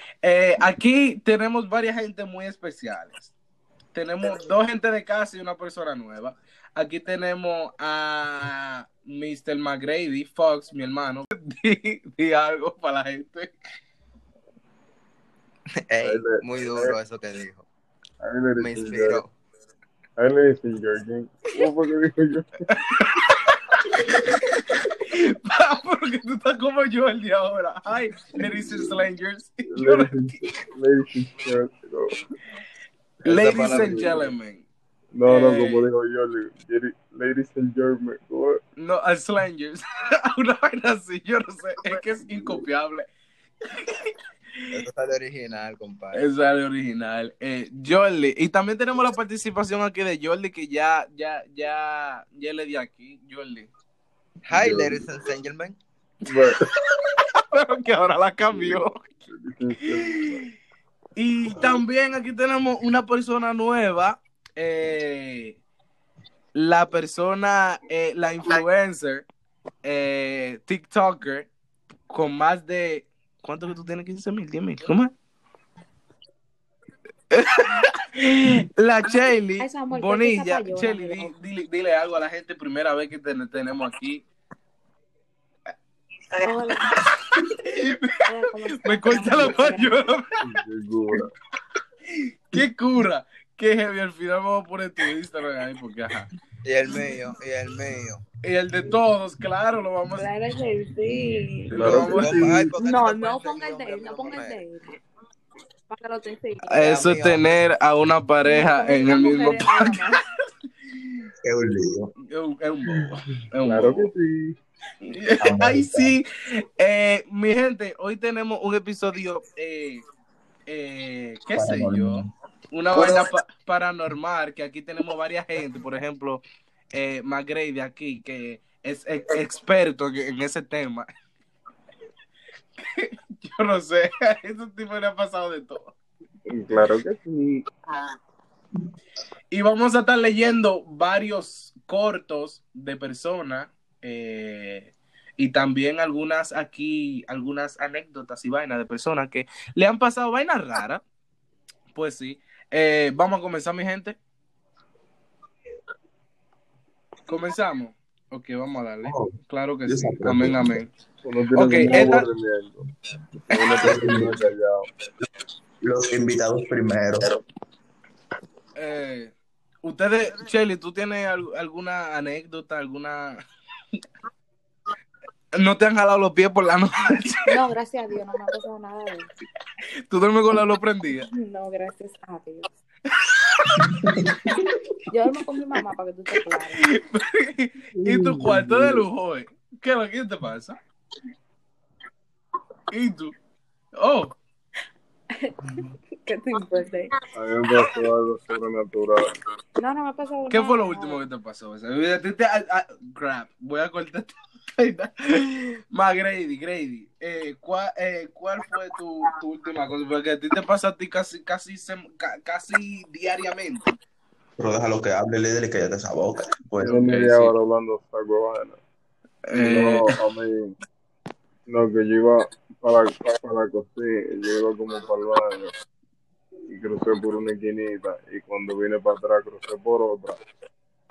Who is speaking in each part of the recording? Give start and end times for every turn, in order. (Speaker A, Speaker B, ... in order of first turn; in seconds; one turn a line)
Speaker A: 0.2-3.3
Speaker A: 3.9-13.5
Speaker B: 15.9-17.6
Speaker C: 16.0-17.0
Speaker C: 18.2-19.2
Speaker B: 18.6-19.3
Speaker C: 20.2-22.6
Speaker A: 22.7-30.4
Speaker C: 29.7-32.1
Speaker B: 33.2-34.3
Speaker A: 33.3-34.7
Speaker C: 33.3-34.2
Speaker C: 35.1-38.6
Speaker A: 35.3-35.9
Speaker A: 38.8-43.1
Speaker A: 43.7-44.7
Speaker B: 44.7-46.2
Speaker A: 46.1-53.7
Speaker B: 54.5-55.8
Speaker C: 54.5-55.1
Speaker C: 56.2-56.6
Speaker A: 56.3-59.0
Speaker C: 58.5-60.5
Speaker A: 60.0-60.3
Speaker A: 61.2-65.6
Speaker A: 66.5-69.3
Speaker A: 69.8-71.5
Speaker A: 72.1-75.1
Speaker A: 77.3-84.2
Speaker D: 79.6-81.3
Speaker D: 86.4-87.0
Speaker A: 87.3-88.2
Speaker D: 88.2-90.1
Speaker A: 88.8-90.4
Speaker C: 90.4-91.3
Speaker A: 92.2-96.3
Speaker B: 96.7-98.2
Speaker A: 98.4-100.2
Speaker D: 100.1-101.8
Speaker E: 101.7-102.1
Speaker C: 101.7-102.7
Speaker A: 101.8-102.4
Speaker B: 101.9-104.6
Speaker D: 102.8-105.0
Speaker D: 105.9-106.7
Speaker A: 106.7-110.0
Speaker B: 106.8-107.5
Speaker D: 108.5-110.2
Speaker E: 111.4-112.1
Speaker A: 112.3-114.1
Speaker C: 113.6-114.6
Speaker A: 115.0-120.0
Speaker E: 115.4-116.2
Speaker A: 120.7-126.4
Speaker E: 121.5-122.3
Speaker A: 126.9-131.1
Speaker A: 132.8-135.9
Speaker C: 136.5-137.7
Speaker A: 139.5-151.0
Speaker A: 151.9-154.2
Speaker A: 157.3-160.9
Speaker E: 159.0-159.3
Speaker E: 159.9-160.8
Speaker C: 161.2-162.8
Speaker A: 161.6-162.3
Speaker E: 161.8-162.2
Speaker C: 163.5-164.9
Speaker E: 163.8-164.4
Speaker E: 165.8-167.3
Speaker A: 168.8-173.4
Speaker A: 175.6-177.5
Speaker D: 177.5-179.3
Speaker A: 180.1-181.3
Speaker D: 181.2-182.7
Speaker E: 183.7-184.8
Speaker D: 185.1-186.9
Speaker A: 186.8-190.8
Speaker C: 188.0-189.1
Speaker A: 192.9-193.3
Speaker A: 194.0-194.3
Speaker D: 195.3-197.2
Speaker C: 197.3-199.3
Speaker D: 199.8-201.2
Speaker A: 200.5-213.9
Speaker E: 214.6-217.3
Speaker C: 216.8-218.8
Speaker A: 216.8-217.6
Speaker A: 219.5-220.2
Speaker C: 219.5-220.8
Speaker C: 221.7-225.7
Speaker C: 226.7-230.4